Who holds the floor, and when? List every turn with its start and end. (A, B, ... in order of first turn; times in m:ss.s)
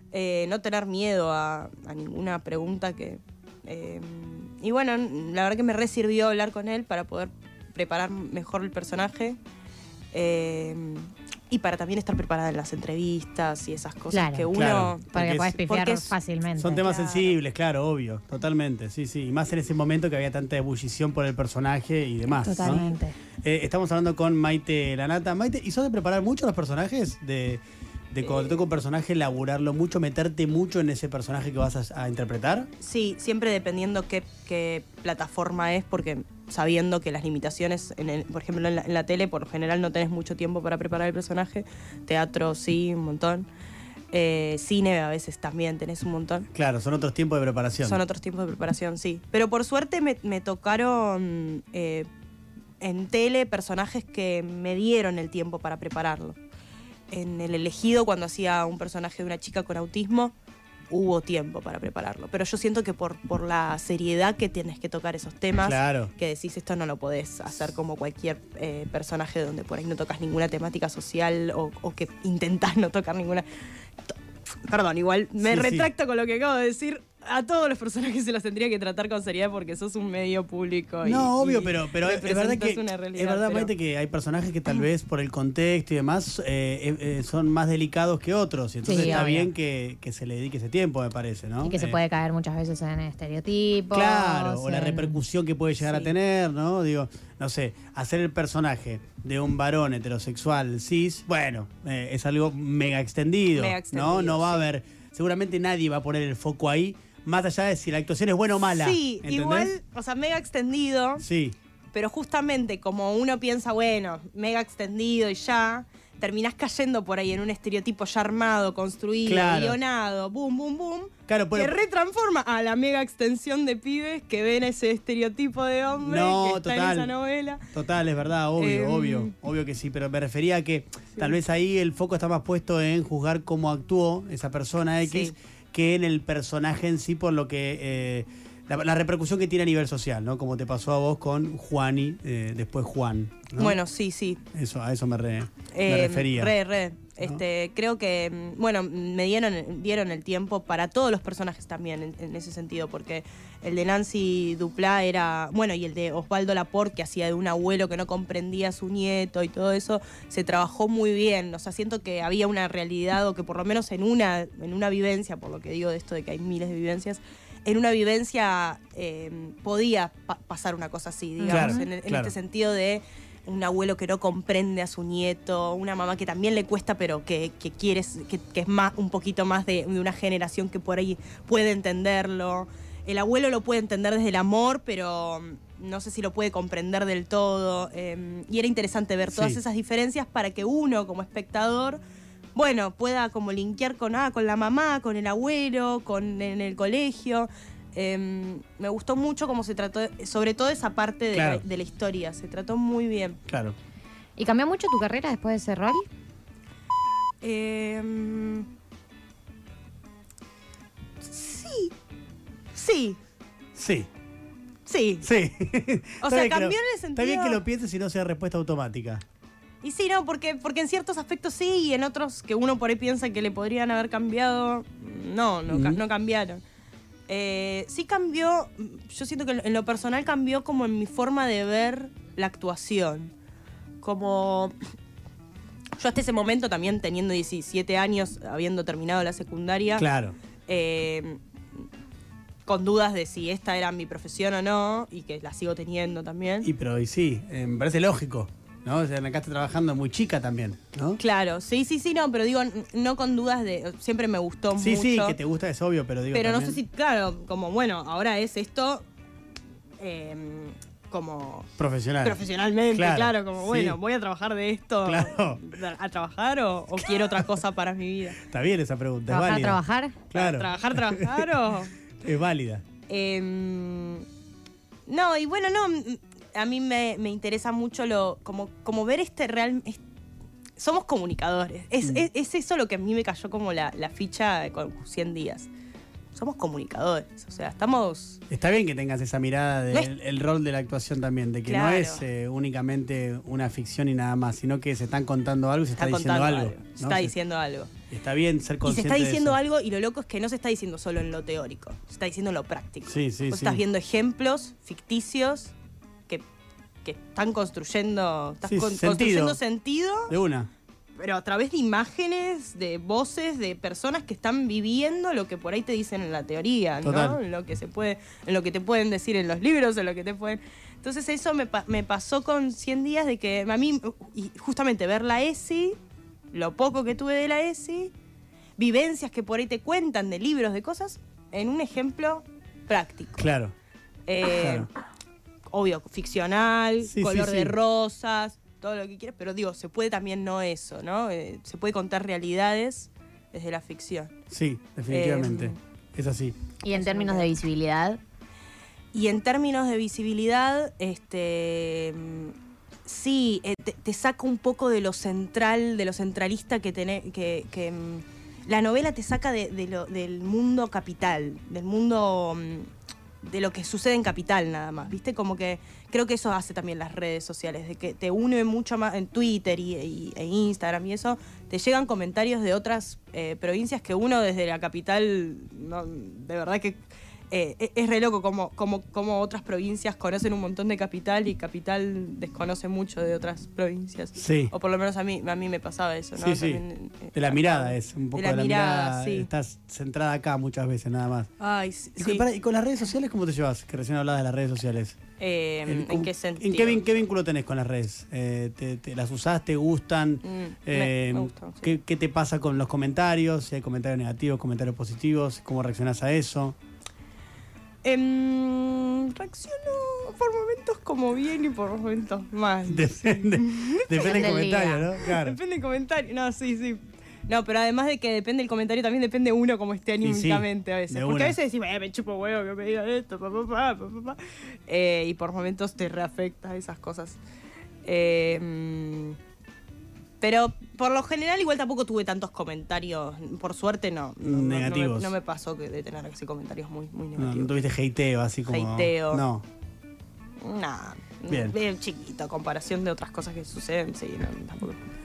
0:00.1-0:09.4 A
0:10.1-0:16.1 A
0:14.1-0:14.5 B
0:14.5-0:15.5 C
0:15.1-0:17.0 B
0:16.6-0:22.8 C
0:16.6-0:17.4 A
0:22.4-0:23.2 B
0:23.4-0:32.7 C
0:28.2-0:28.5 A
0:32.8-0:43.5 A
0:44.1-0:46.5 A
0:46.5-0:48.0 C
0:47.8-0:52.1 A
0:52.8-0:56.4 A
0:57.1-1:00.3 A
1:00.9-1:13.4 A
1:05.6-1:06.1 C
1:14.0-1:23.7 A
1:15.4-1:15.9 C
1:21.0-1:32.0 C
1:28.8-1:29.5 B
1:29.0-1:29.3 A
1:31.6-1:35.2 B
1:33.9-1:49.7 C
1:35.8-1:36.1 A
1:43.5-1:44.7 A
1:48.6-1:51.2 A
1:51.2-1:51.5 C
1:51.9-2:07.6 A
1:59.2-1:59.8 C
2:01.3-2:01.8 C
2:06.0-2:07.1 C
2:07.7-2:23.8 C
2:08.6-2:09.3 A
2:15.0-2:15.3 A
2:23.6-2:24.4 A
2:24.5-2:26.5 C
2:25.7-3:12.0 A
2:51.4-2:51.8 B
2:51.5-2:52.3 C
3:09.3-3:09.6 C
3:12.5-3:23.4 A
3:21.3-3:21.6 C
3:23.5-3:23.8 C
3:24.4-3:26.0 B
3:27.4-3:28.7 A
3:31.2-3:31.9 A
3:32.7-3:33.2 A
3:33.7-3:34.1 C
3:34.8-3:35.3 A
3:35.2-3:39.2 C
3:36.2-3:37.6 A
3:39.8-3:46.6 A
3:45.7-3:46.0 C
3:47.3-3:53.3 A
3:54.0-3:54.7 A
3:56.0-4:00.1 A
4:00.0-4:00.3 C
4:00.7-4:01.4 A
4:02.7-4:06.7 A
4:06.6-4:11.2 C
4:11.2-4:15.4 A
4:14.8-4:16.8 C
4:16.3-4:19.0 A
4:20.0-4:21.7 A
4:21.8-4:24.0 C
4:22.2-4:28.4 A
4:25.0-4:25.6 C
4:27.0-4:27.4 C
4:28.4-4:29.8 C
4:29.3-4:30.2 B
4:30.3-4:31.9 A
4:30.3-4:31.5 C
4:32.2-4:32.8 C
4:33.1-4:34.2 A
4:35.1-4:40.0 A
4:40.8-4:45.7 A
4:46.3-4:48.4 A
4:48.5-4:57.3 C
4:51.7-4:52.2 A
4:56.0-4:57.9 A
4:58.1-4:59.6 C
4:58.8-5:05.7 A
5:03.0-5:03.8 C
5:07.0-5:10.3 A
5:08.6-5:09.6 C
5:10.3-5:10.7 C
5:11.2-5:26.0 A
5:17.0-5:17.4 C
5:26.5-5:28.1 A
5:28.8-5:33.5 A
5:33.4-5:33.7 C
5:34.3-5:34.9 A
5:34.4-5:34.9 C
5:35.7-5:44.3 A
5:37.0-5:37.7 C
5:44.5-5:46.6 C
5:45.1-5:45.8 A
5:46.8-5:48.2 B
5:46.9-5:47.5 A
5:49.1-6:02.9 A
6:03.4-6:17.0 A
6:17.5-6:29.5 A
6:24.4-6:24.7 C
6:26.4-6:26.8 C
6:27.3-6:31.5 C
6:31.6-6:32.4 A
6:32.2-6:35.2 C
6:35.4-6:37.2 A
6:35.8-6:46.8 C
6:40.4-6:41.9 A
6:48.0-6:54.6 A
6:52.9-6:55.6 C
6:54.2-6:55.1 B
6:55.2-7:07.4 A
7:00.2-7:01.6 C
7:08.0-7:09.4 A
7:10.4-7:17.8 A
7:14.4-7:15.3 C
7:17.4-7:19.6 C
7:18.7-7:19.4 A
7:20.6-7:25.1 A
7:21.5-7:21.8 C